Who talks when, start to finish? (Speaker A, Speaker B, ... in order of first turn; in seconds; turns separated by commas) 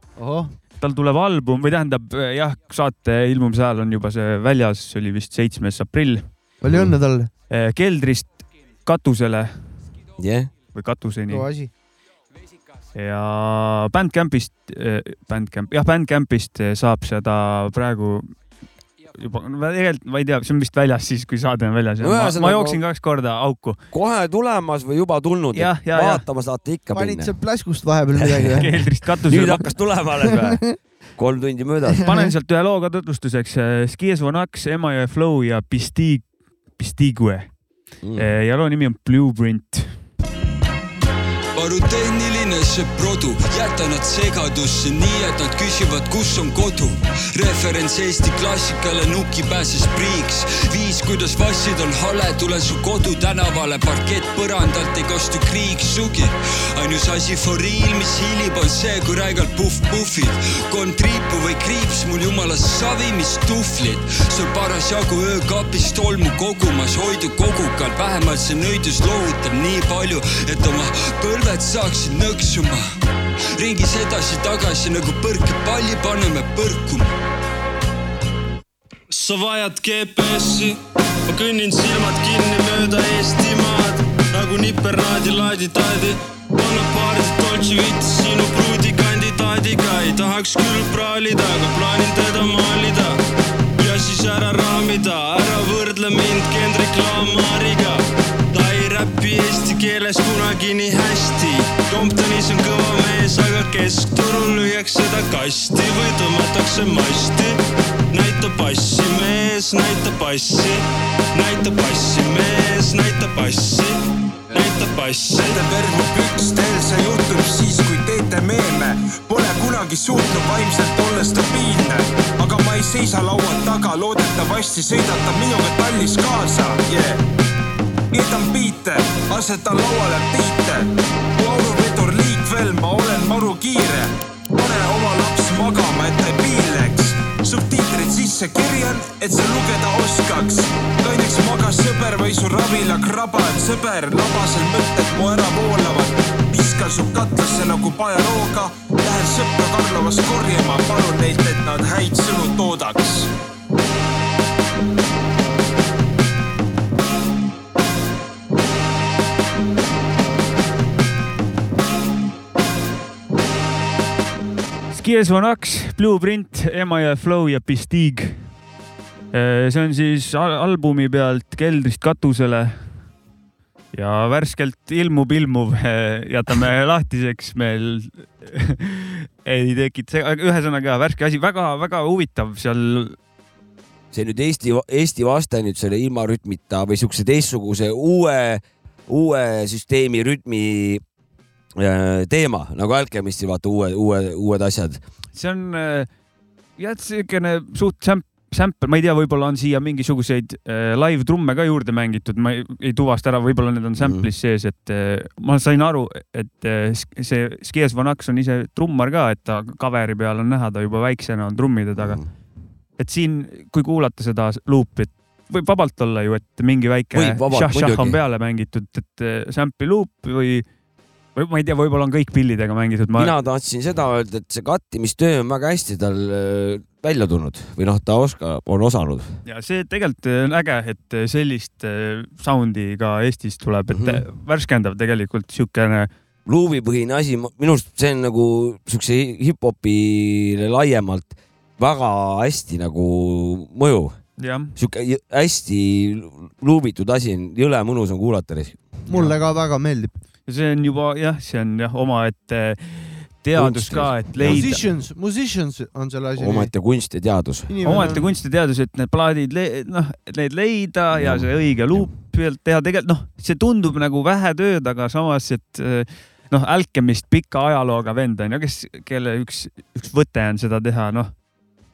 Speaker A: 0.2-0.5, Speaker B: 0.8-6.3, Speaker A: 6.6-7.3, Speaker C: 6.7-7.0, Speaker B: 7.5-9.5, Speaker C: 10.2-10.5, Speaker B: 10.7-11.5, Speaker A: 11.3-11.7, Speaker B: 12.9-18.3, Speaker B: 19.1-23.8, Speaker C: 22.0-22.8, Speaker C: 23.9-27.3, Speaker B: 25.5-26.2, Speaker A: 26.9-28.8, Speaker C: 28.2-28.6, Speaker B: 28.6-29.7, Speaker C: 29.3-30.6, Speaker A: 30.3-30.6, Speaker C: 31.2-32.1, Speaker A: 32.0-32.3, Speaker B: 32.0-36.3, Speaker B: 36.8-37.5, Speaker C: 38.0-38.3, Speaker B: 38.2-39.9, Speaker D: 41.5-72.9, Speaker D: 73.6-77.1, Speaker E: 79.1-93.2, Speaker E: 93.8-107.6, Speaker E: 108.1-114.0, Speaker E: 114.5-115.5, Speaker F: 115.3-127.2, Speaker F: 128.1-153.3, Speaker B: 164.9-168.4, Speaker B: 169.3-172.8, Speaker B: 173.9-183.2, Speaker C: 184.1-191.0, Speaker C: 191.8-195.0, Speaker B: 195.3-196.1, Speaker B: 196.8-212.2, Speaker C: 204.0-204.3, Speaker C: 212.0-212.3, Speaker B: 213.0-220.7, Speaker C: 217.1-218.2, Speaker B: 221.4-223.3, Speaker C: 223.2-229.3, Speaker B: 229.5-236.1, Speaker C: 233.9-234.2, Speaker C: 236.5-244.1, Speaker B: 244.4-244.7, Speaker C: 244.8-248.8, Speaker A: 249.1-250.1, Speaker B: 249.1-249.3, Speaker B: 250.5-254.8, Speaker C: 253.6-254.8, Speaker A: 254.4-256.7, Speaker C: 256.4-258.1, Speaker A: 257.7-258.2, Speaker B: 257.8-271.3, Speaker C: 261.1-262.1